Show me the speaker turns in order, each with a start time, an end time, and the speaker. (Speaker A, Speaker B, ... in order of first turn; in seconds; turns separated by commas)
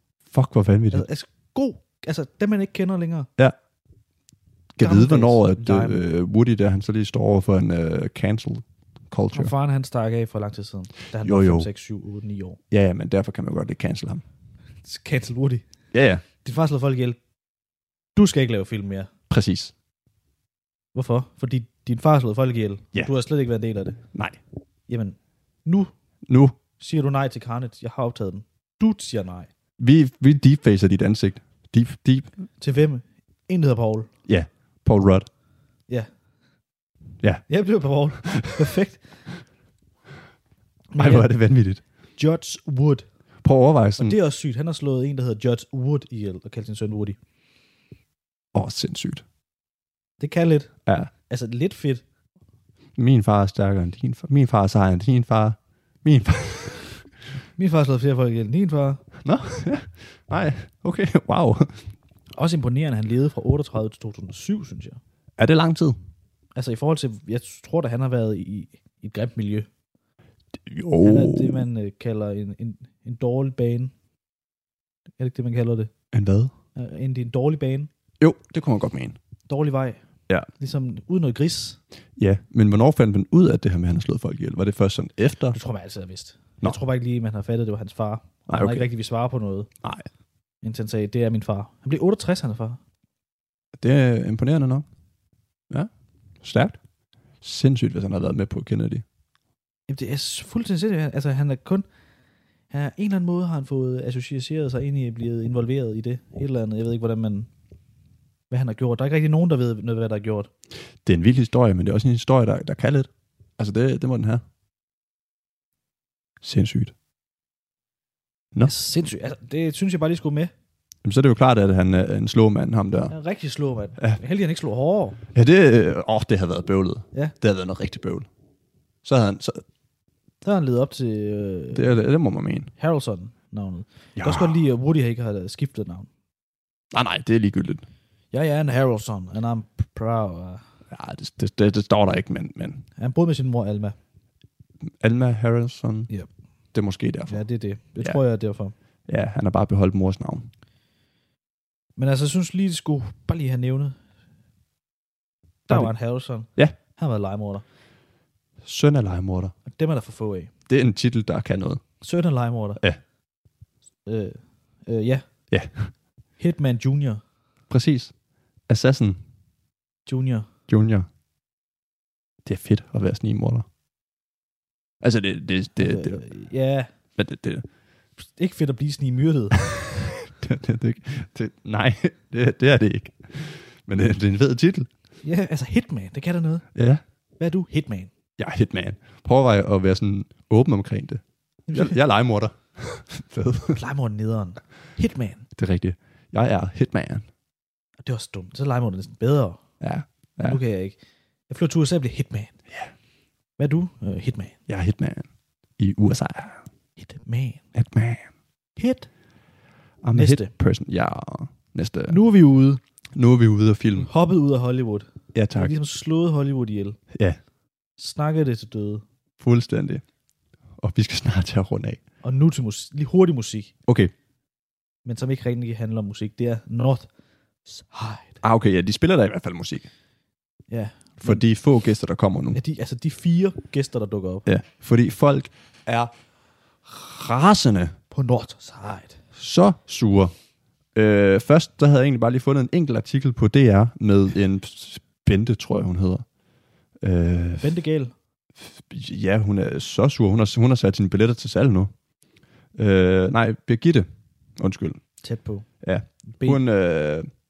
Speaker A: 0.3-1.1, Speaker B: 0.9-3.3, Speaker A: 4.8-9.5, Speaker B: 4.8-6.0, Speaker B: 9.3-12.6, Speaker A: 11.2-11.7, Speaker A: 12.7-14.2, Speaker B: 14.8-15.7, Speaker A: 15.9-16.2, Speaker B: 16.4-17.2, Speaker B: 18.2-19.1, Speaker A: 19.3-19.7, Speaker B: 20.9-24.0, Speaker A: 24.1-24.4, Speaker B: 24.9-25.9, Speaker A: 26.3-26.6, Speaker B: 26.8-29.5, Speaker A: 29.8-32.3, Speaker B: 32.6-34.1, Speaker A: 34.3-35.3, Speaker B: 37.5-39.0, Speaker A: 38.3-38.6, Speaker B: 40.9-41.3, Speaker A: 41.0-41.8, Speaker B: 42.2-43.1, Speaker A: 43.4-44.2, Speaker B: 44.0-47.2, Speaker A: 48.5-49.2, Speaker B: 50.2-50.7, Speaker B: 51.3-52.0, Speaker A: 53.0-56.9, Speaker B: 57.6-59.0, Speaker A: 59.2-61.8, Speaker B: 62.4-65.0, Speaker A: 65.4-66.0, Speaker B: 66.6-69.7, Speaker A: 70.6-71.7, Speaker B: 71.0-73.9, Speaker B: 75.2-75.9, Speaker A: 76.1-76.5, Speaker B: 76.8-77.9, Speaker A: 78.2-79.2, Speaker B: 79.5-80.0, Speaker B: 80.6-81.8, Speaker A: 82.2-85.6, Speaker B: 85.5-89.7, Speaker A: 88.5-88.9, Speaker A: 89.8-90.1, Speaker B: 90.6-92.8, Speaker A: 93.8-94.8, Speaker A: 96.4-96.8, Speaker A: 97.4-99.0, Speaker B: 99.9-101.9, Speaker B: 102.7-107.5, Speaker B: 108.5-110.5, Speaker A: 111.0-114.4, Speaker A: 116.4-116.9, Speaker B: 118.6-120.5, Speaker A: 121.0-123.1, Speaker B: 123.1-125.2, Speaker A: 125.3-128.3, Speaker A: 129.0-129.6, Speaker B: 130.4-132.0, Speaker A: 131.8-132.7, Speaker B: 132.8-136.1, Speaker A: 134.2-134.6, Speaker A: 136.9-137.8, Speaker B: 138.3-140.6, Speaker A: 140.9-142.9, Speaker B: 143.0-144.0, Speaker A: 145.0-146.1, Speaker A: 146.7-147.4, Speaker B: 147.3-148.7, Speaker A: 149.1-150.5, Speaker B: 152.0-154.0, Speaker B: 155.7-157.6, Speaker A: 158.6-159.5, Speaker B: 159.7-160.5, Speaker A: 160.7-161.8, Speaker B: 162.0-162.8, Speaker B: 164.1-165.2, Speaker A: 165.5-165.9, Speaker B: 166.4-167.2, Speaker A: 167.7-168.1, Speaker A: 168.7-169.2, Speaker B: 170.1-170.5, Speaker A: 170.7-171.1, Speaker A: 172.4-173.7, Speaker A: 175.0-176.2, Speaker B: 175.8-176.9, Speaker A: 177.2-177.7, Speaker B: 178.2-179.6, Speaker A: 179.7-184.9, Speaker B: 185.2-186.7, Speaker A: 186.8-187.0, Speaker B: 187.4-188.1, Speaker A: 188.4-191.2, Speaker B: 191.7-192.0, Speaker A: 191.7-193.8, Speaker B: 193.7-195.5, Speaker A: 195.6-197.3, Speaker B: 198.1-199.6, Speaker A: 199.8-200.6, Speaker B: 200.4-201.0, Speaker B: 201.5-202.5, Speaker B: 203.6-204.6, Speaker A: 204.7-206.6, Speaker B: 207.0-207.6, Speaker A: 207.8-208.3, Speaker B: 208.8-209.1, Speaker A: 210.0-212.2, Speaker B: 210.1-210.5, Speaker B: 212.1-212.8, Speaker A: 213.2-214.1, Speaker B: 214.0-217.0, Speaker A: 215.3-215.7, Speaker A: 217.1-217.4, Speaker B: 218.0-219.0, Speaker A: 219.4-220.0, Speaker A: 220.8-222.0, Speaker B: 222.2-223.7, Speaker A: 223.9-224.1, Speaker B: 225.1-227.1, Speaker B: 227.7-228.4, Speaker A: 228.4-229.9, Speaker B: 230.7-231.4, Speaker A: 231.2-232.6, Speaker B: 232.6-234.4, Speaker A: 234.5-236.1, Speaker A: 236.8-238.0, Speaker B: 238.1-239.2, Speaker A: 239.4-240.3, Speaker A: 240.9-246.2, Speaker A: 247.0-247.7, Speaker B: 247.6-248.1, Speaker A: 248.6-251.9, Speaker A: 252.8-254.1, Speaker A: 254.6-255.0, Speaker B: 255.2-255.7, Speaker A: 255.8-257.3, Speaker B: 256.3-256.6